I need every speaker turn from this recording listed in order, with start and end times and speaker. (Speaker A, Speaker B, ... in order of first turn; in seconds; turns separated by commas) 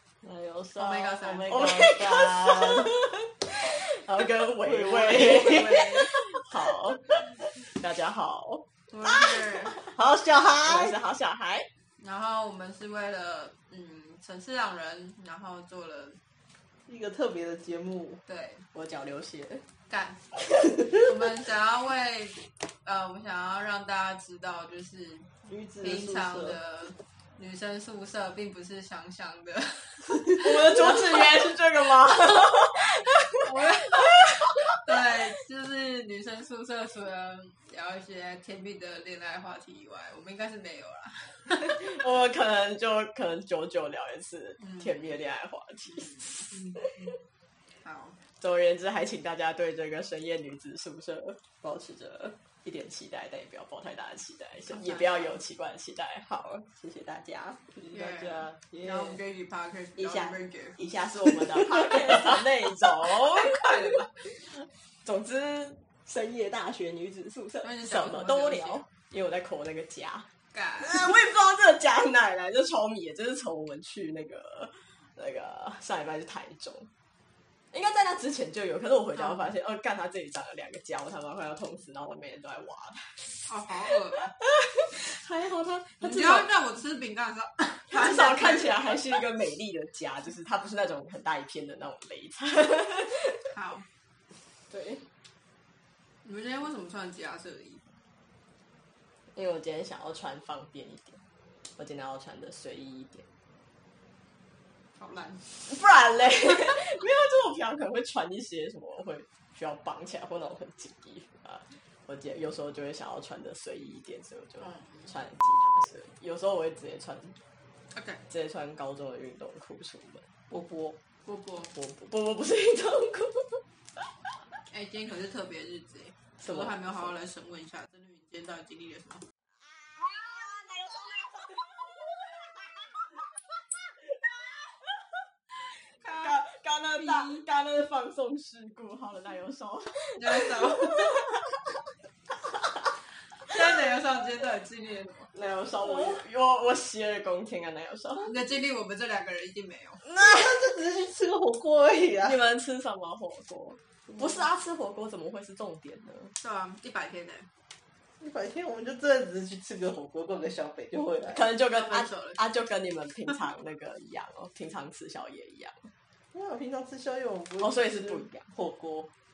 Speaker A: 0.2-3.0, Speaker B: 0.8-1.6, Speaker C: 1.4-9.7, Speaker A: 4.6-5.7, Speaker B: 5.1-6.1, Speaker B: 8.9-9.8, Speaker A: 9.9-10.9, Speaker C: 10.6-11.7, Speaker B: 12.0-16.2, Speaker A: 16.9-18.2, Speaker B: 18.3-18.6, Speaker C: 18.7-19.6, Speaker B: 19.9-20.3, Speaker B: 20.9-25.3, Speaker A: 25.4-26.6, Speaker B: 25.8-31.2, Speaker C: 30.4-34.7, Speaker B: 33.4-41.8, Speaker C: 41.6-47.1, Speaker B: 44.6-44.9, Speaker B: 46.5-46.9, Speaker B: 47.8-48.2, Speaker C: 48.4-59.2, Speaker B: 54.7-55.4, Speaker B: 57.9-60.8, Speaker C: 60.0-70.2, Speaker B: 63.3-64.1, Speaker B: 67.6-68.8, Speaker B: 70.5-71.1, Speaker C: 70.8-76.9, Speaker C: 77.7-83.5, Speaker B: 79.2-79.4, Speaker B: 83.5-84.3, Speaker C: 84.4-86.5, Speaker B: 86.0-89.0, Speaker C: 87.9-93.4, Speaker B: 93.5-93.8, Speaker C: 94.7-95.0, Speaker B: 96.2-97.9, Speaker C: 99.3-101.2, Speaker C: 101.8-103.2, Speaker B: 105.0-105.6, Speaker C: 105.6-117.3, Speaker B: 114.6-115.1, Speaker B: 117.9-118.2, Speaker C: 118.3-120.2, Speaker A: 120.5-121.0, Speaker B: 121.2-121.7, Speaker C: 121.7-123.6, Speaker B: 124.7-129.2, Speaker C: 126.4-127.1, Speaker C: 130.0-132.1, Speaker C: 134.2-135.0, Speaker B: 135.9-136.3, Speaker C: 136.0-141.7, Speaker B: 137.0-137.4, Speaker B: 140.2-141.2, Speaker B: 143.4-145.3, Speaker C: 145.3-148.3, Speaker B: 148.2-150.0, Speaker A: 150.0-152.3, Speaker C: 152.2-156.3, Speaker B: 156.4-157.5, Speaker A: 158.2-161.4, Speaker C: 161.3-165.9, Speaker B: 161.7-162.4, Speaker A: 166.3-169.1, Speaker C: 167.6-168.4